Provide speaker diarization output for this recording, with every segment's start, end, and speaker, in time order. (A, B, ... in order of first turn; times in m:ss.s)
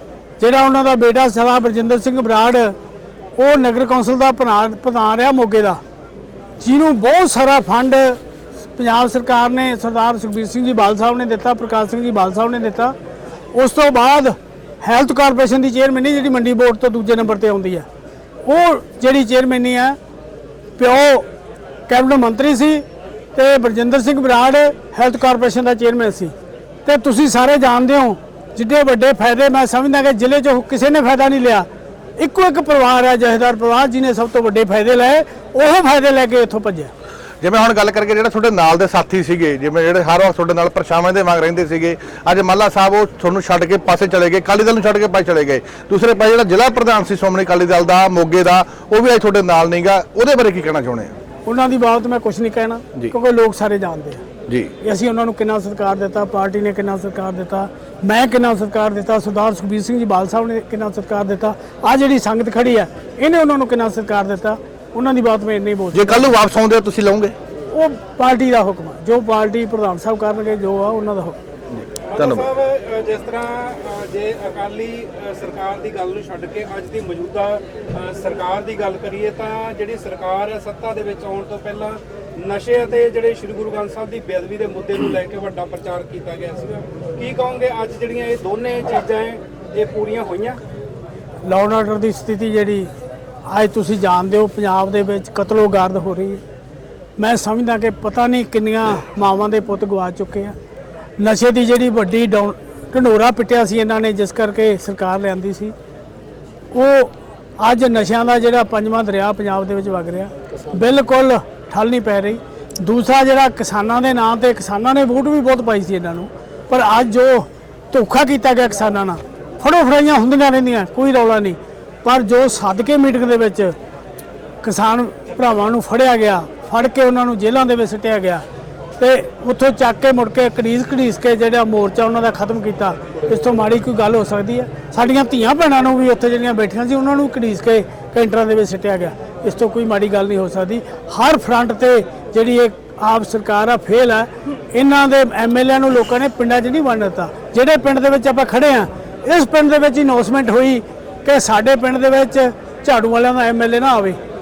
0:00.4-0:02.7 A
0:03.4-0:05.8 A
0:06.6-0:08.2 A
0:08.8-0:13.0 A
0:13.5-0:17.9 A
0:18.5-0:20.0 A
0:20.8-0:21.3 A
0:21.9-0:22.8 A
0:23.4-0:26.3 A
0:26.9-0:31.7 A
0:32.2-0:36.9 A
0:37.4-0:51.1 B
0:51.5-0:54.2 A
0:54.8-1:06.2 A
1:05.9-1:07.4 B
1:07.7-1:11.4 A
1:11.7-1:12.5 B
1:12.1-1:30.6 C
1:31.5-1:32.9 A
1:33.5-1:36.4 A
1:37.2-1:40.6 A
1:41.2-1:45.7 A
1:46.7-2:03.7 A
2:04.6-2:08.4 A
2:09.0-2:34.2 A